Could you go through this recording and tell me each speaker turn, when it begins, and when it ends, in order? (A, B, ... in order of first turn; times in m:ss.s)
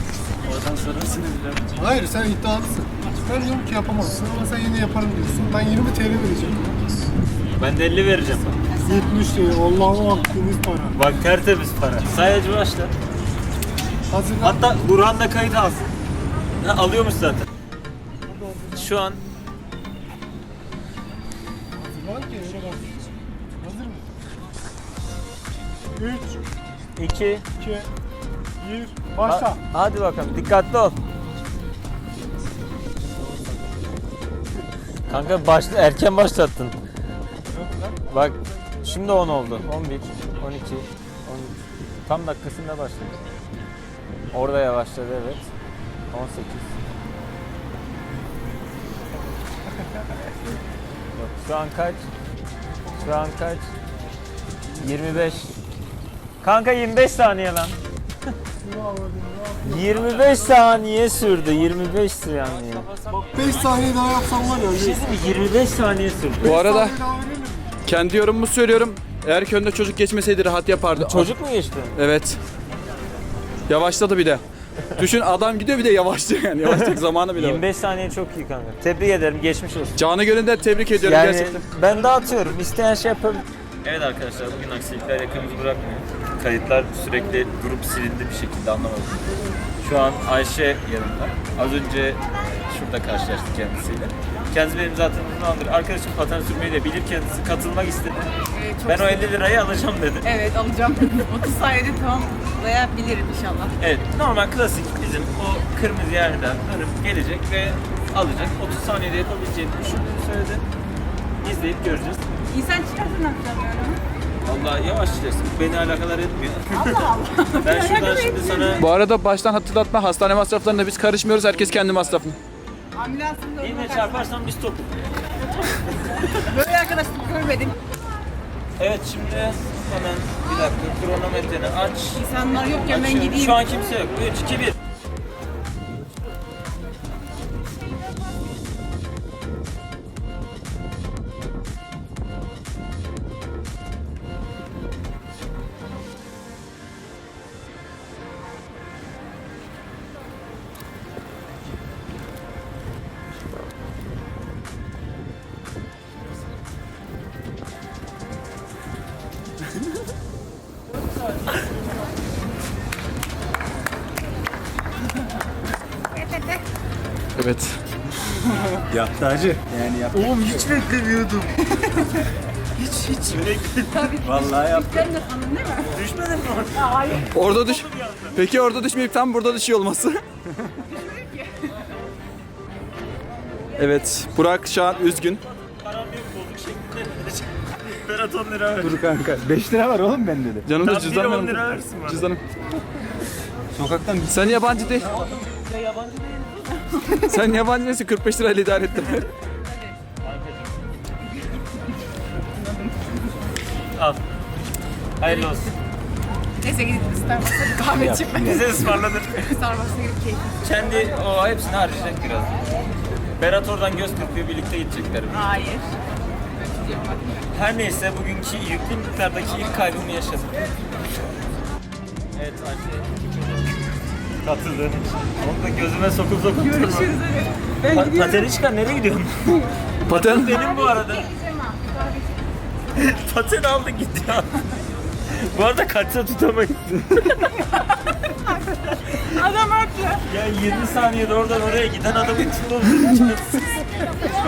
0:00.4-0:01.6 A
0:01.7-0:06.8 B
0:07.6-0:08.6 A
0:08.8-0:11.0 B
0:10.9-0:12.9 A
0:14.1-0:14.6 B
0:14.4-0:15.9 A
0:16.6-0:17.4 A
0:18.3-0:18.7 B
0:18.7-0:19.2 A
0:21.7-0:23.1 B
0:23.6-0:24.1 B
0:25.9-0:26.4 B
0:27.0-0:27.4 A
0:27.6-0:27.9 B
0:28.6-0:29.6 B
0:29.2-0:31.0 A
0:35.1-0:36.8 A
0:37.5-0:37.9 B
0:38.1-0:43.2 A
0:44.3-0:45.5 A
0:46.1-0:46.7 A
0:51.1-0:52.1 A
0:52.9-0:53.7 A
0:54.8-0:55.5 A
0:56.4-0:57.8 A
0:58.6-1:00.0 B
0:59.6-1:02.9 A
1:03.1-1:05.1 B
1:04.7-1:06.6 A
1:06.4-1:07.0 C
1:06.4-1:07.7 B
1:07.8-1:11.3 C
1:11.0-1:12.0 A
1:11.9-1:12.4 C
1:13.7-1:17.6 C
1:16.6-1:20.0 A
1:20.0-1:21.6 C
1:21.0-1:29.3 A
1:29.8-1:38.3 A
1:38.5-1:39.2 D
1:38.8-1:40.3 A
1:40.2-1:43.7 D
1:43.8-1:50.6 A
1:51.4-1:52.2 A
1:52.5-1:54.0 D
1:54.4-1:58.8 A
1:56.8-1:58.8 D
1:58.8-2:02.4 C
2:03.0-2:04.2 D
2:03.6-2:04.9 A
2:05.7-2:06.3 A
2:06.3-2:07.7 D
2:08.8-2:14.8 A
2:12.2-2:13.6 D
2:46.1-2:46.6 D
2:47.4-2:47.8 C
2:48.9-2:50.8 E
2:50.2-2:51.6 B
2:51.8-2:52.1 D
2:52.8-2:54.2 A
2:53.9-2:55.9 D
2:54.2-2:55.2 E
2:55.9-2:58.4 A
2:57.0-2:57.2 D
2:57.3-3:00.7 C
3:01.0-3:01.7 D
3:03.8-3:05.4 C
3:04.8-3:09.0 A
3:08.8-3:10.7 E
3:10.6-3:12.4 C
3:10.8-3:12.2 A
3:13.7-3:15.4 E
3:14.2-3:15.1 C
3:15.1-3:17.1 A
3:16.8-3:17.2 D
3:17.1-3:19.3 C
3:20.2-3:20.8 A
3:22.6-3:23.2 D
3:23.9-3:24.2 A
3:25.2-3:25.7 A
3:26.6-3:28.8 D
3:27.9-3:28.3 E
3:28.3-3:29.6 A
3:29.4-3:30.6 D
3:30.6-3:32.6 A
3:33.4-3:35.6 A
3:35.3-3:36.0 D
3:36.8-3:37.4 D
3:37.5-3:40.7 A
3:42.3-3:47.2 A
3:46.8-3:48.4 D
3:47.8-3:51.3 A
3:50.1-3:50.6 C
3:50.5-3:52.4 D
3:52.9-3:54.6 A
3:55.3-3:57.7 A
3:58.7-3:59.4 A
3:59.2-4:00.2 D
4:00.2-4:04.2 A